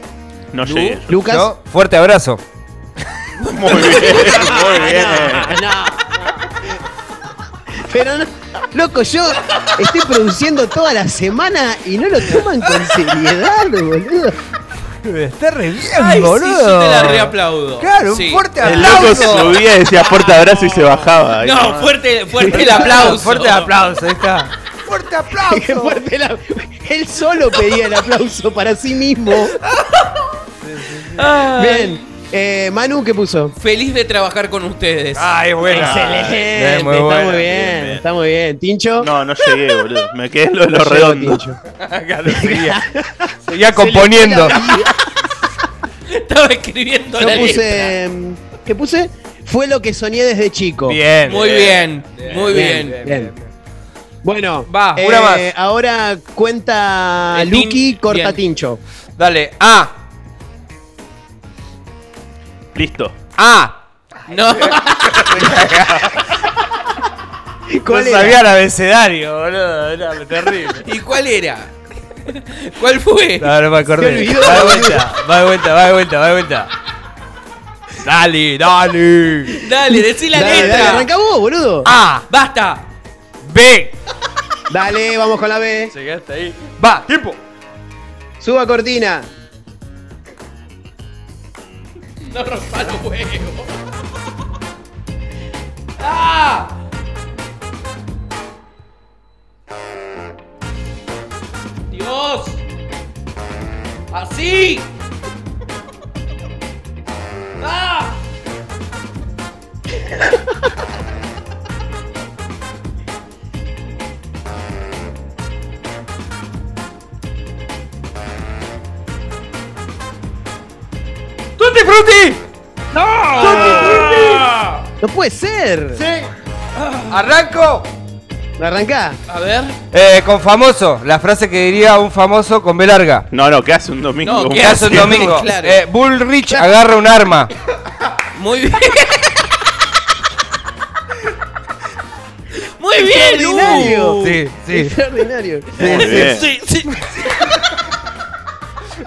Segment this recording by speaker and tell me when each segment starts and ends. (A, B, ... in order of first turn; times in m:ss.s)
0:00.5-0:01.1 A
0:00.6-0:01.0 B
0:01.1-0:01.5 C
0:01.2-0:02.4 D
0:03.4-0:05.3 B
0:03.5-0:05.5 A
0:03.7-0:06.6 C
0:07.8-0:14.4 C
0:15.0-0:19.6 D
0:15.9-0:23.7 B
0:18.6-0:22.8 A
0:18.7-0:19.1 C
0:22.5-0:26.0 D
0:22.6-0:23.2 C
0:25.5-0:29.6 C
0:29.6-0:30.3 B
0:30.6-0:31.2 D
0:31.1-0:32.0 B
0:31.5-0:33.5 C
0:33.6-0:35.4 B
0:35.2-0:37.5 D
0:35.6-0:39.1 C
0:35.7-0:36.4 A
0:37.4-0:38.0 A
0:39.0-0:41.4 A
0:40.7-0:41.6 C
0:41.7-0:42.8 D
0:42.3-0:45.0 C
0:43.4-0:44.6 D
0:46.1-0:48.0 B
0:47.2-0:51.0 C
0:50.8-0:53.5 D
0:51.2-0:53.0 B
0:52.5-0:53.3 C
0:54.2-0:58.8 C
0:54.7-0:55.1 B
0:55.0-0:55.5 D
0:57.3-0:58.4 B
0:59.2-0:59.9 B
1:02.7-1:03.1 A
1:03.4-1:05.8 B
1:04.6-1:06.4 D
1:07.7-1:08.4 C
1:07.9-1:10.8 D
1:10.8-1:13.5 B
1:13.4-1:16.7 D
1:14.0-1:15.1 C
1:18.0-1:19.6 D
1:19.6-1:21.1 B
1:20.3-1:21.9 C
1:21.8-1:22.2 D
1:22.2-1:22.9 B
1:23.4-1:23.9 D
1:24.7-1:25.9 C
1:25.9-1:27.4 D
1:28.4-1:29.3 C
1:32.2-1:33.7 B
1:36.0-1:36.8 B
1:41.9-1:42.6 B
1:44.1-1:44.9 B
1:47.6-1:48.2 B
2:01.6-2:02.3 D
2:02.9-2:04.8 B
2:03.4-2:04.4 C
2:03.4-2:04.4 D
2:05.0-2:06.0 C
2:05.9-2:06.3 D
2:06.7-2:07.2 B
2:07.1-2:07.9 D
2:08.6-2:09.2 C
2:09.3-2:09.8 B
2:09.9-2:13.3 D
2:13.3-2:15.4 A
2:14.2-2:15.8 B
2:14.6-2:17.5 D
2:18.3-2:19.6 B
2:22.8-2:24.4 B
2:23.0-2:26.4 C
2:23.8-2:24.9 D
2:25.8-2:27.6 B
2:25.8-2:26.5 A